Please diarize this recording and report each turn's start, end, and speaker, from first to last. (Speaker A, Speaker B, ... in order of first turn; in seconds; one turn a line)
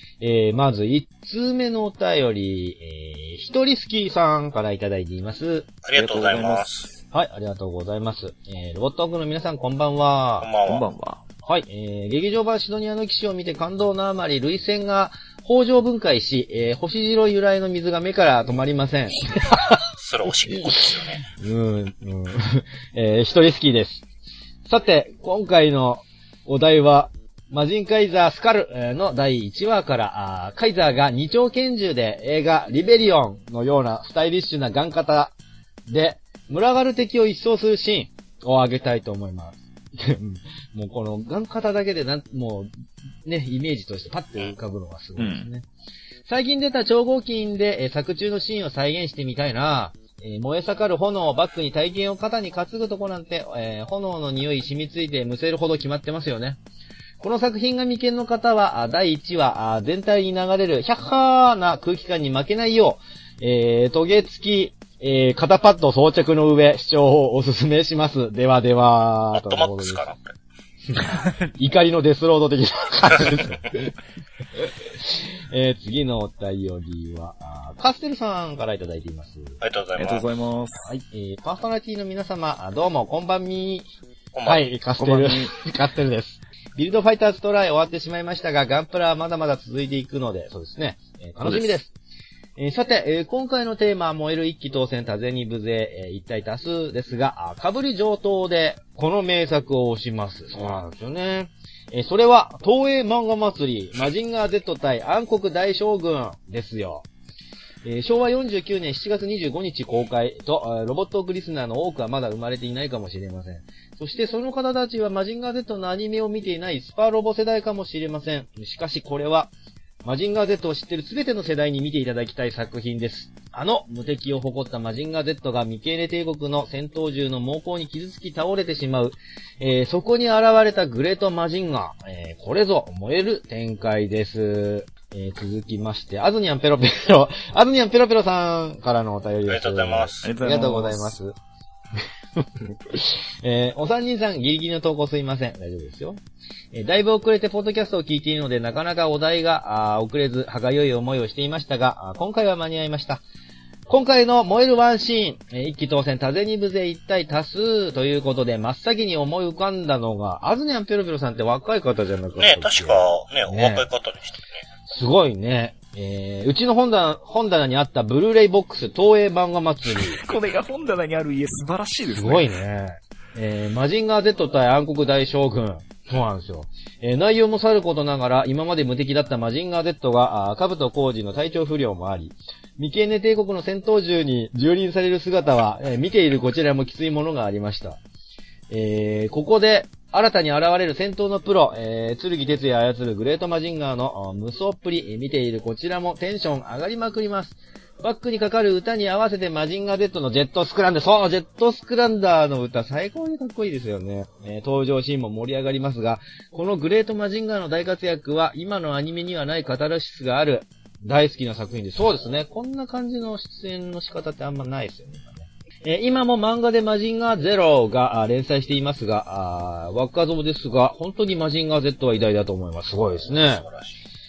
Speaker A: 0.2-5.7
Speaker B: 5.8-6.9
Speaker C: 6.0-7.0
Speaker A: 7.1-10.5
Speaker B: 10.4-10.9
Speaker C: 10.7-11.2
Speaker A: 11.4-19.8
Speaker B: 20.0-21.3
Speaker A: 20.5-24.0
Speaker A: 24.7-35.3
Speaker A: 35.9-42.7
Speaker A: 43.2-45.6
Speaker C: 45.2-45.5
Speaker A: 46.2-56.6
Speaker A: 57.2-70.0
Speaker B: 69.3-70.3
Speaker A: 70.9-73.9
Speaker A: 74.6-79.6
Speaker B: 79.6-80.3
Speaker C: 80.0-80.9
Speaker A: 80.8-83.9
Speaker B: 84.3-84.6
Speaker A: 84.5-91.9
Speaker C: 85.0-85.5
Speaker C: 91.4-91.8
Speaker A: 92.6-107.1
Speaker A: 107.8-119.5
Speaker A: 120.0-141.3
Speaker B: 139.5-140.3
Speaker C: 140.2-141.2
Speaker A: 142.4-146.2
Speaker A: 146.7-153.2
Speaker A: 153.9-163.8
Speaker B: 162.4-164.4
Speaker A: 164.9-170.2
Speaker C: 169.9-172.5
Speaker A: 172.1-188.0
Speaker A: 188.7-223.7
Speaker B: 223.3-223.9